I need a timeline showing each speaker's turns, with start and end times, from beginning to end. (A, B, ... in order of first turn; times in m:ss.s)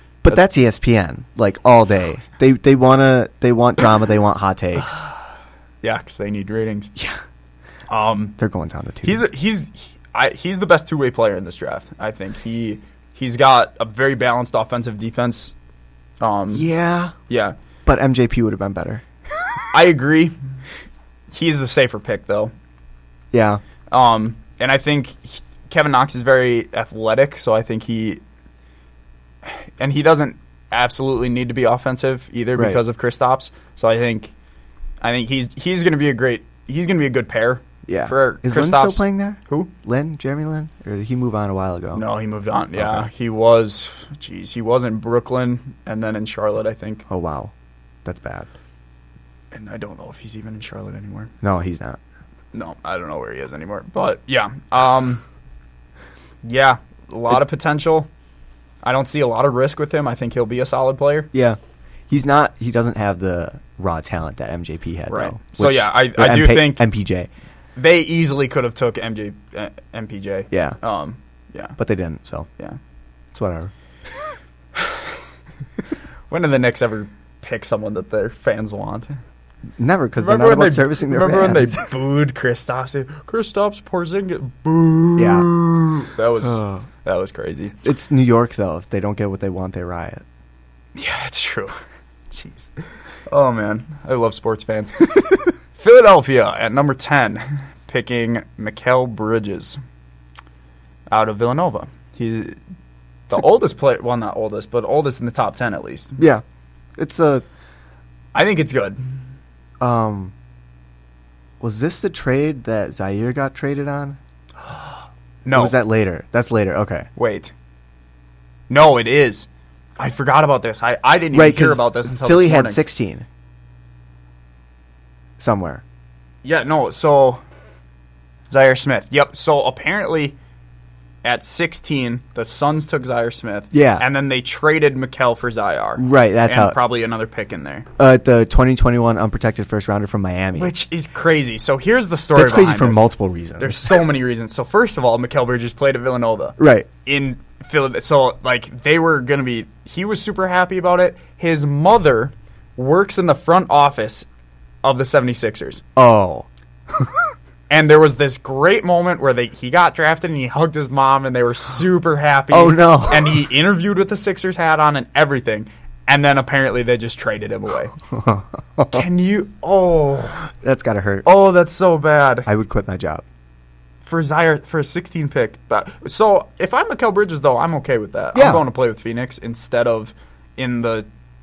0:00.2-0:05.0 A
0:05.8-0:06.9 B
0:07.9-0:08.4 B
0:08.4-0:09.2 A
0:09.0-0:15.6 B
0:16.2-0:16.6 B
0:16.5-0:17.1 A
0:17.3-0:17.5 B
0:17.9-0:19.0 A
0:19.7-0:20.3 B
0:21.3-0:22.5 B
0:23.3-0:23.6 A
0:23.9-0:28.2 B
0:29.4-0:34.3 B
0:32.5-0:32.8 A
0:35.0-0:39.7 B
0:37.9-0:42.0 A
0:41.9-0:47.0 B
0:42.7-0:43.1 A
0:47.1-0:47.5 A
0:48.0-0:48.5 A
0:49.5-0:51.3 B
0:51.4-0:52.0 A
0:52.5-0:55.2 B
0:56.4-0:58.1 B
0:58.8-1:01.3 B
1:01.3-1:01.6 A
1:02.1-1:07.3 A
1:05.1-1:06.9 B
1:07.8-1:11.8 B
1:10.5-1:10.8 A
1:11.8-1:12.5 A
1:13.3-1:13.7 A
1:14.8-1:15.1 B
1:16.3-1:19.2 B
1:19.8-1:21.8 A
1:20.2-1:27.7 B
1:25.2-1:25.5 A
1:26.4-1:26.9 A
1:27.8-1:30.2 A
1:31.0-1:31.8 B
1:32.3-1:32.7 B
1:33.3-1:39.8 B
1:41.1-1:42.6 B
1:43.3-1:46.2 B
1:46.2-1:46.4 A
1:47.0-1:47.4 A
1:48.3-1:49.0 B
1:49.8-1:50.3 A
1:51.6-1:54.2 A
1:55.4-1:55.8 B
1:55.5-1:57.1 A
1:57.2-1:57.5 B
1:58.7-1:59.5 B
2:00.0-2:02.8 B
2:01.3-2:03.2 A
2:05.4-2:05.8 A
2:06.4-2:07.4 B
2:08.5-2:10.4 B
2:11.2-2:17.9 B
2:13.7-2:14.0 A
2:16.0-2:16.8 A
2:18.0-2:20.7 A
2:20.5-2:23.0 B
2:22.4-2:24.0 A
2:23.6-2:34.3 B
2:26.6-2:26.9 A
2:34.8-2:35.8 B
2:36.0-2:36.5 A
2:37.7-2:47.9 B
2:42.5-2:43.4 A
2:48.1-2:49.0 A
2:48.9-2:50.5 B
2:50.6-2:51.3 A
2:51.2-2:52.5 B
2:52.4-2:53.2 A
2:54.0-3:01.0 B
2:58.4-2:58.6 A